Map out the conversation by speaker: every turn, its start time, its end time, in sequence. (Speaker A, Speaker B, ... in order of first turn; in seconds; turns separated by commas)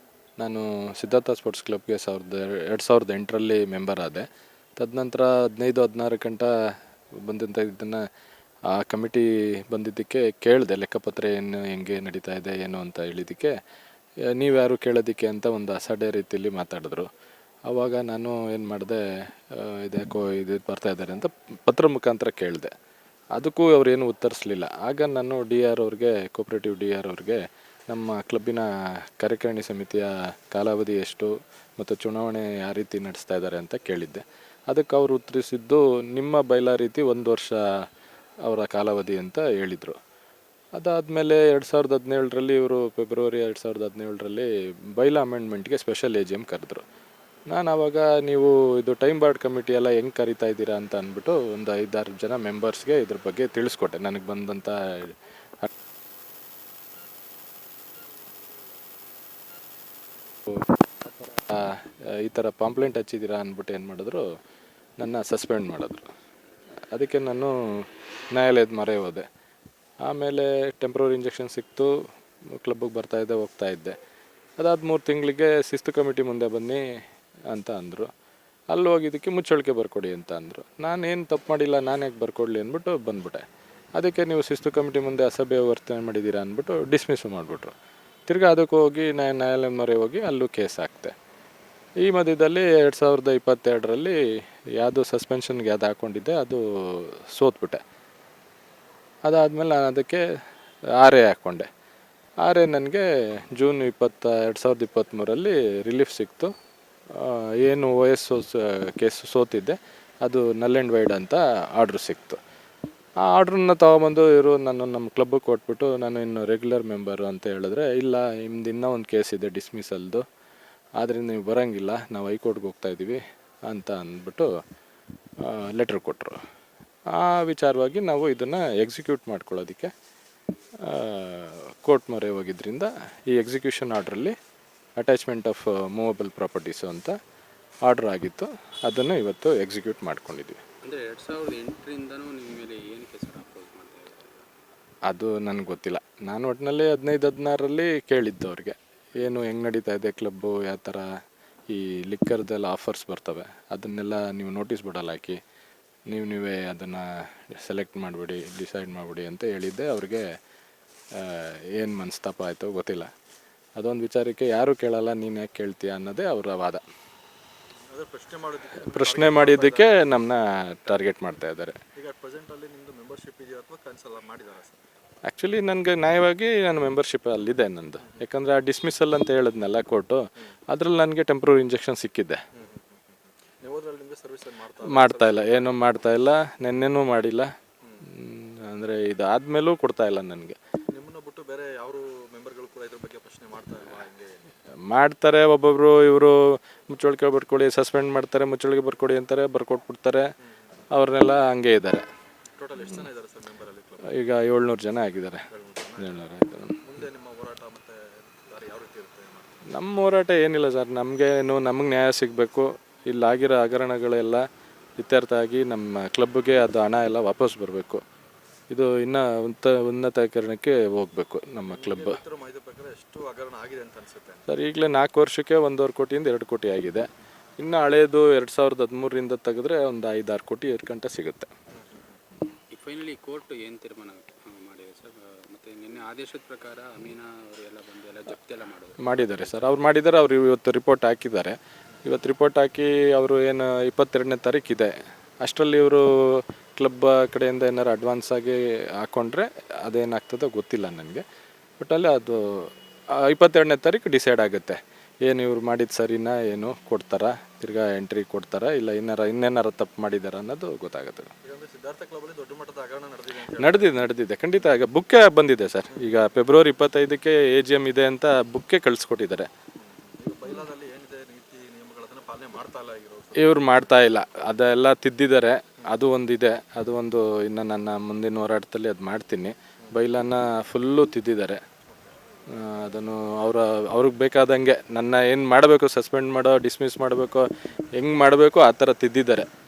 Speaker A: 0.4-4.2, Speaker A: 4.8-6.5, Speaker A: 7.2-8.0, Speaker A: 8.7-13.5, Speaker A: 14.3-17.1, Speaker A: 17.7-22.7, Speaker A: 23.4-28.7, Speaker A: 29.2-37.6, Speaker A: 38.4-40.0, Speaker A: 40.8-46.8, Speaker A: 47.5-55.7, Speaker A: 61.3-64.2, Speaker A: 65.0-66.1, Speaker A: 66.9-69.2, Speaker A: 70.0-72.0, Speaker A: 72.5-74.0, Speaker A: 74.6-76.8, Speaker A: 77.5-78.1, Speaker A: 78.7-83.4, Speaker A: 84.0-87.7, Speaker A: 88.3-91.1, Speaker A: 92.0-94.2, Speaker A: 94.8-97.8, Speaker A: 99.2-100.3, Speaker A: 101.0-101.7, Speaker A: 102.4-106.5, Speaker A: 107.1-112.4, Speaker A: 113.2-120.2, Speaker A: 121.0-124.5, Speaker A: 125.4-126.4, Speaker A: 127.1-129.9, Speaker A: 130.8-134.3, Speaker A: 135.0-137.2, Speaker A: 137.8-140.6, Speaker B: 140.8-144.5, Speaker A: 145.1-151.1, Speaker A: 151.7-155.4, Speaker A: 156.1-160.2, Speaker A: 161.1-163.1, Speaker A: 163.8-166.8, Speaker C: 167.9-170.0, Speaker A: 168.9-171.8, Speaker C: 172.0-174.8, Speaker A: 175.3-182.4, Speaker C: 182.6-185.9, Speaker A: 184.8-187.5, Speaker A: 188.1-190.6, Speaker C: 190.9-194.5, Speaker A: 194.8-200.3, Speaker A: 200.9-202.0, Speaker C: 202.6-204.1, Speaker A: 204.1-205.4, Speaker C: 205.5-206.2, Speaker A: 206.0-206.8, Speaker C: 206.8-209.6, Speaker A: 209.7-214.4, Speaker A: 215.0-218.0, Speaker A: 218.7-222.2, Speaker C: 221.6-224.5, Speaker A: 224.5-227.1, Speaker A: 227.6-231.5, Speaker C: 231.8-232.2, Speaker B: 232.7-239.8, Speaker A: 239.0-251.2, Speaker A: 251.8-261.3, Speaker C: 261.4-263.9, Speaker A: 263.6-269.5, Speaker C: 269.8-273.9, Speaker A: 273.4-281.6, Speaker A: 282.5-287.5, Speaker A: 288.0-289.5